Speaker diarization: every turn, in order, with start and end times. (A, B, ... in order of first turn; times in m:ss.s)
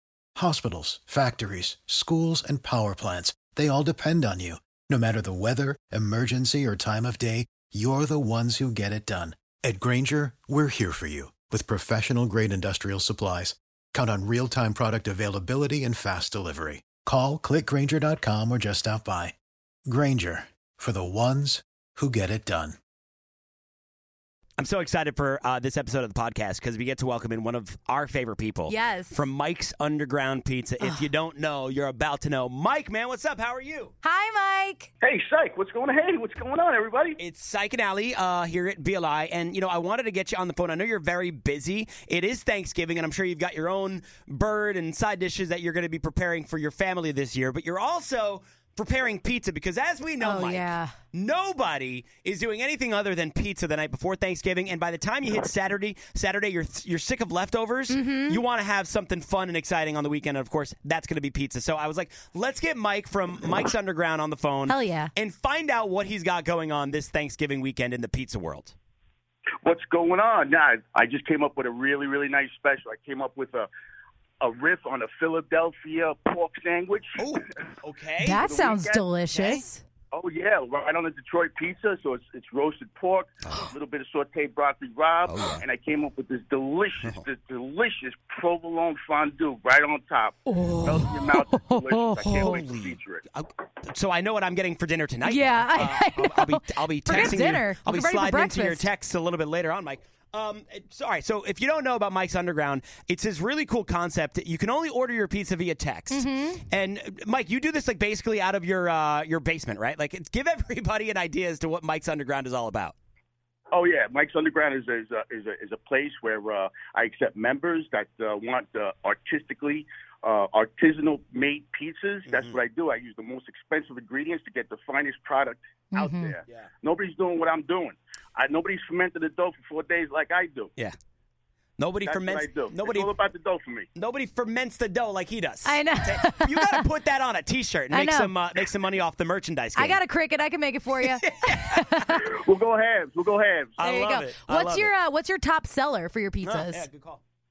0:00.4-0:19.4 A
0:19.9-0:22.8 A
0:24.6-0:33.9 B
0:28.7-0:29.2 C
0:30.8-0:31.1 C
0:34.0-0:34.9 C
0:35.0-0:37.2 D
0:37.2-1:08.8 B
0:50.2-0:50.9 C
0:57.9-0:58.4 C
1:04.7-1:05.1 C
1:09.6-1:13.7 D
1:14.4-1:17.3 D
1:17.2-1:18.4 B
1:18.2-1:19.8 C
1:18.4-1:19.0 D
1:19.3-1:19.6 B
1:20.1-1:33.2 D
1:23.4-1:23.7 B
1:25.3-1:25.6 B
1:30.6-1:32.6 C
1:32.3-1:53.0 B
1:35.2-1:38.9 C
1:46.1-1:46.6 C
1:53.7-2:10.7 D
2:02.3-2:02.6 B
2:05.9-2:06.4 C
2:11.8-2:13.1 B
2:12.0-2:13.9 D
2:14.0-2:20.0 B
2:15.6-2:16.9 C
2:17.9-2:18.4 C
2:19.8-2:22.2 C
2:21.0-2:22.0 B
2:22.1-2:23.8 D
2:23.8-2:24.9 B
2:23.8-2:26.9 C
2:26.4-2:27.2 B